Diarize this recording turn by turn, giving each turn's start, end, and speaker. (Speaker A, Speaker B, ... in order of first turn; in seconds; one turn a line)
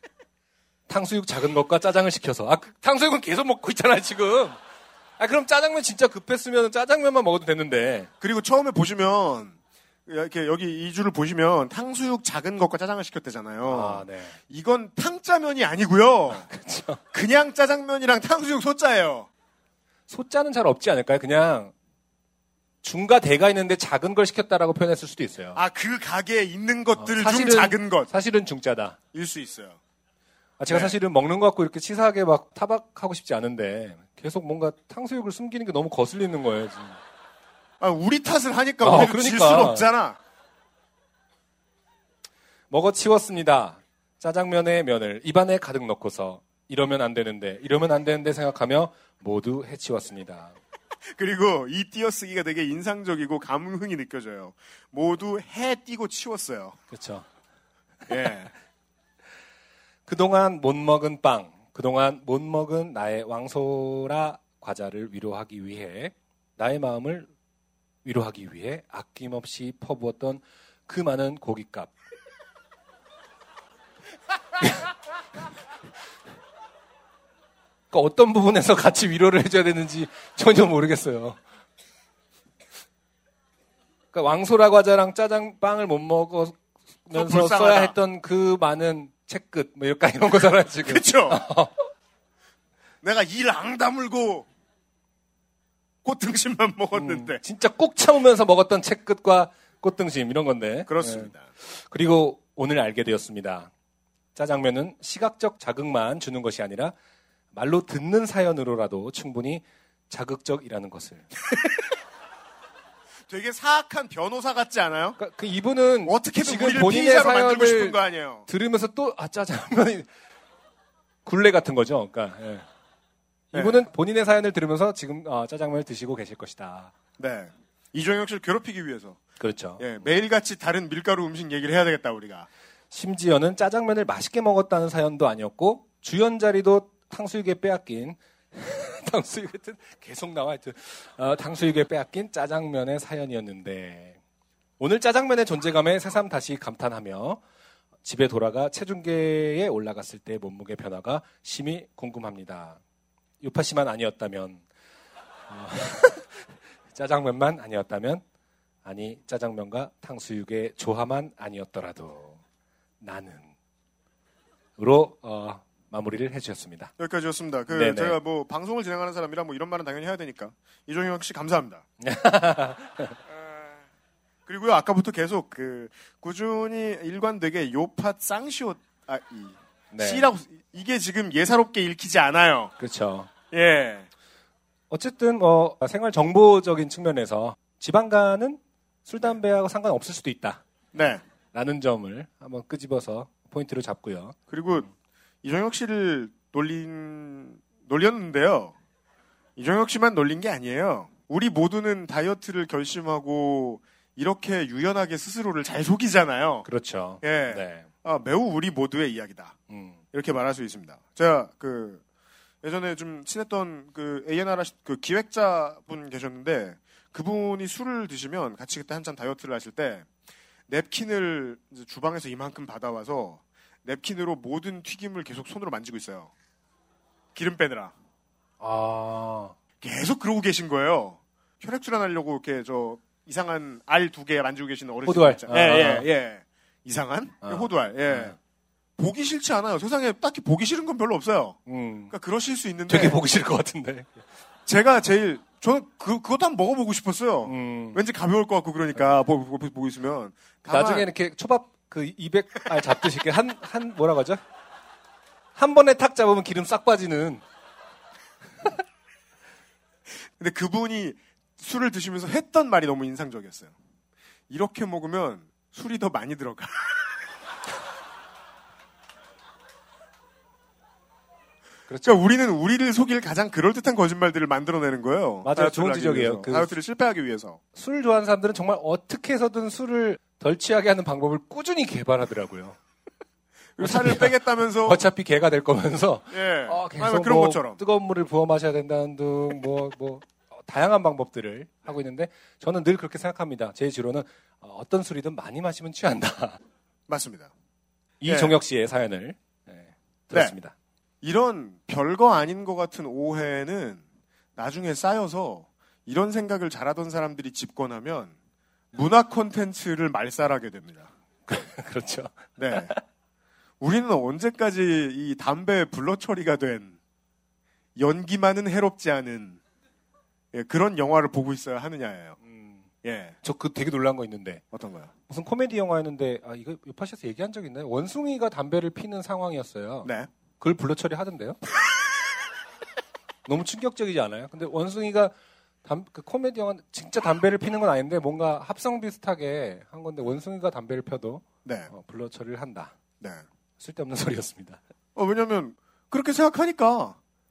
Speaker A: 0.9-4.6
Speaker A: 5.2-8.1
Speaker B: 8.2-9.5
Speaker B: 10.1-16.5
Speaker A: 13.7-14.4
Speaker A: 16.5-17.0
Speaker B: 17.1-19.3
Speaker A: 20.1-21.7
Speaker A: 22.8-25.6
Speaker B: 25.5-28.1
Speaker A: 27.0-29.0
Speaker B: 29.1-29.8
Speaker A: 30.6-37.0
Speaker B: 30.7-30.9
Speaker B: 37.8-40.2
Speaker A: 38.8-39.9
Speaker A: 42.7-50.5
Speaker B: 51.1-56.8
Speaker A: 56.9-57.2
Speaker B: 58.1-58.5
Speaker A: 60.0-67.3
Speaker A: 68.0-71.9
Speaker A: 77.9-81.4
Speaker A: 84.1-91.7
Speaker B: 87.1-87.9
Speaker B: 90.8-91.4
Speaker B: 93.0-94.5
Speaker B: 96.0-97.4
Speaker A: 96.9-103.7
Speaker B: 100.9-101.4
Speaker A: 104.3-106.9
Speaker A: 107.5-111.3
Speaker B: 113.3-115.2
Speaker A: 115.2-120.1
Speaker B: 116.0-118.5
Speaker A: 121.2-122.6
Speaker B: 123.5-123.8
Speaker A: 123.5-126.9
Speaker B: 127.2-129.2
Speaker A: 129.4-129.8
Speaker B: 129.8-132.5
Speaker A: 132.9-144.2
Speaker A: 144.8-147.4
Speaker A: 148.0-152.8
Speaker A: 153.4-154.6
Speaker A: 155.5-158.2
Speaker A: 158.8-162.4
Speaker A: 163.0-163.5
Speaker A: 164.8-166.9
Speaker B: 167.0-171.8
Speaker A: 167.7-168.2
Speaker A: 172.0-173.2
Speaker B: 174.5-182.7
Speaker A: 179.9-180.3
Speaker A: 182.8-183.3
Speaker B: 183.5-184.1
Speaker A: 184.9-190.6
Speaker B: 190.9-191.2
Speaker A: 191.5-194.3
Speaker B: 194.5-194.9
Speaker B: 195.4-198.7
Speaker B: 199.6-206.7
Speaker A: 206.6-207.9
Speaker B: 207.2-209.6
Speaker A: 209.7-210.0
Speaker B: 210.1-212.0
Speaker B: 212.6-220.1
Speaker B: 220.7-226.3
Speaker B: 227.3-227.9
Speaker A: 228.6-229.5
Speaker B: 229.8-238.3
Speaker A: 235.1-236.1
Speaker A: 237.4-238.3
Speaker B: 239.0-241.6
Speaker A: 241.7-242.1
Speaker B: 242.1-243.2
Speaker A: 242.9-244.1
Speaker B: 244.7-251.1
Speaker A: 247.4-248.0
Speaker A: 250.7-254.4
Speaker A: 255.5-257.4
Speaker B: 260.4-263.7
Speaker B: 264.5-266.8
Speaker A: 271.9-272.2
Speaker B: 272.0-277.6
Speaker A: 275.4-276.8
Speaker A: 277.7-282.8
Speaker B: 283.8-285.0
Speaker A: 283.8-284.3
Speaker A: 284.8-296.6
Speaker B: 286.3-287.8
Speaker B: 297.1-297.5
Speaker A: 298.2-300.7
Speaker B: 298.2-298.6
Speaker B: 301.2-304.0
Speaker B: 304.6-308.3
Speaker B: 308.9-311.1
Speaker A: 311.5-313.0
Speaker B: 312.6-312.9
Speaker B: 313.8-317.0
Speaker B: 317.9-319.6
Speaker B: 320.5-322.4
Speaker A: 322.5-322.8
Speaker B: 323.0-323.4
Speaker A: 323.4-324.6
Speaker B: 324.7-325.1
Speaker A: 325.3-331.6
Speaker B: 330.0-330.3
Speaker A: 333.4-335.3
Speaker A: 335.8-342.9
Speaker B: 341.6-341.9
Speaker A: 343.8-344.8
Speaker B: 345.1-347.1